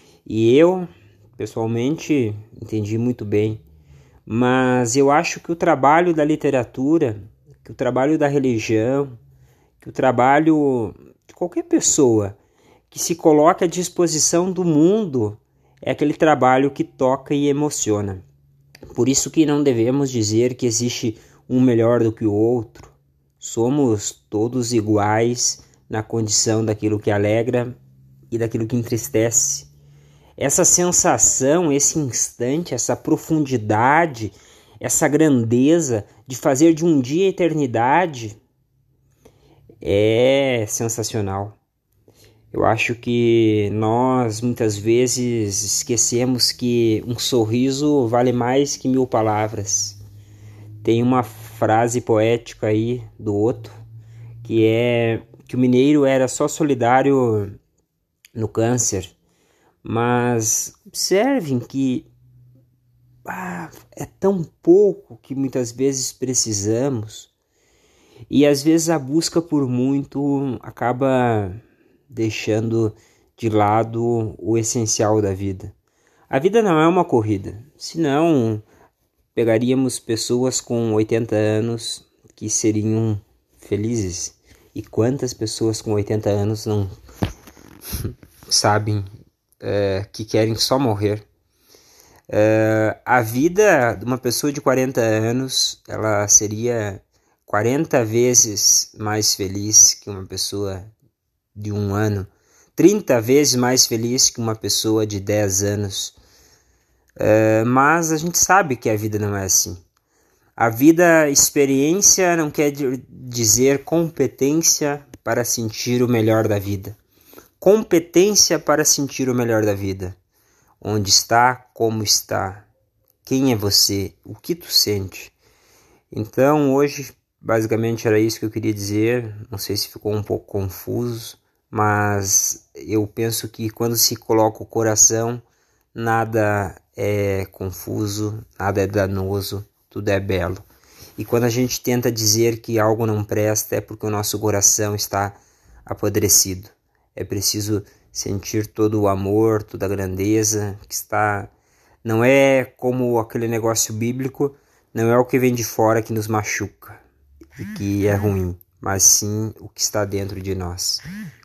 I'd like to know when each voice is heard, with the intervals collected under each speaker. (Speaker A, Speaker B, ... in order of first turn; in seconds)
Speaker A: 0.2-3.6, 4.2-9.1, 9.8-12.4, 12.9-18.2, 18.9-27.8, 28.3-29.7, 30.4-38.4, 39.8-41.6, 42.5-50.0, 50.8-53.8, 54.4-57.5, 58.3-59.1, 59.8-62.1, 63.2-67.3, 68.3-71.6, 72.1-75.7, 76.3-78.6, 79.3-86.9, 88.0-89.0, 89.6-91.2, 92.3-100.8, 101.5-106.2, 107.2-109.8, 110.6-117.0, 117.6-120.2, 120.8-122.7, 123.2-125.3, 126.1-135.4, 135.9-140.6, 141.2-151.5, 152.0-157.0, 157.6-161.0